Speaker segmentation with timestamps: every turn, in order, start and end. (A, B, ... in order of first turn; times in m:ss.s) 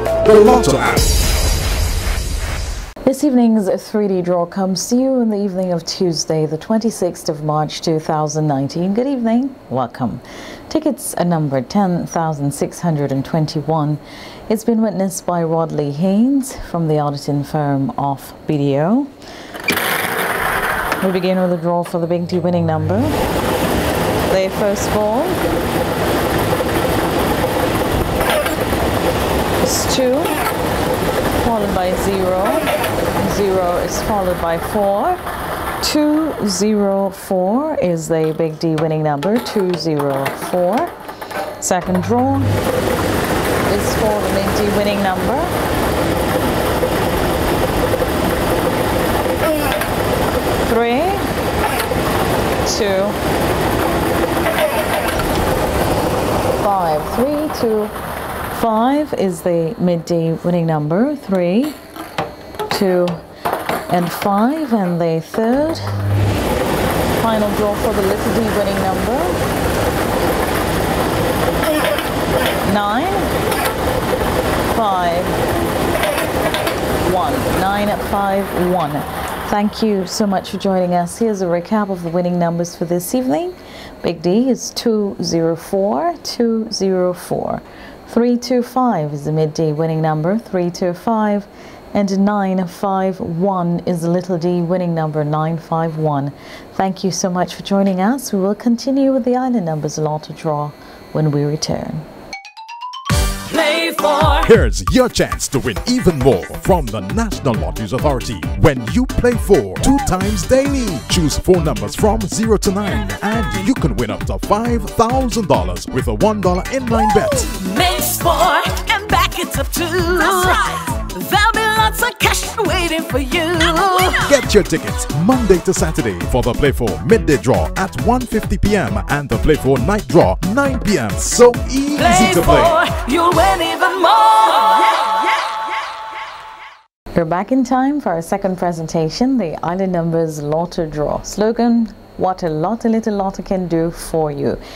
0:00.2-0:01.1 A
0:03.0-0:19.1 B
0:21.0-0:23.2 B
0:24.3-0:25.4 B
0:29.6-0:30.4 B
0:31.4-0:35.2 B
0:35.8-0:40.9 B
0:41.6-0:42.5 B
0:43.6-0:45.5 B
0:50.6-0:51.3 B
0:52.6-0:53.2 B
0:56.6-0:58.0 B
0:58.5-1:01.8 B
1:02.7-1:03.2 B
1:03.9-1:05.9 B
1:07.2-1:09.4 B
1:12.6-1:13.3 B
1:14.7-1:15.4 B
1:17.0-1:42.0 B
1:43.5-1:44.3 C
1:44.3-1:57.5 A
1:57.5-2:04.2 C
2:04.2-2:12.8 A
2:12.1-2:14.9 C
2:17.1-2:24.6 B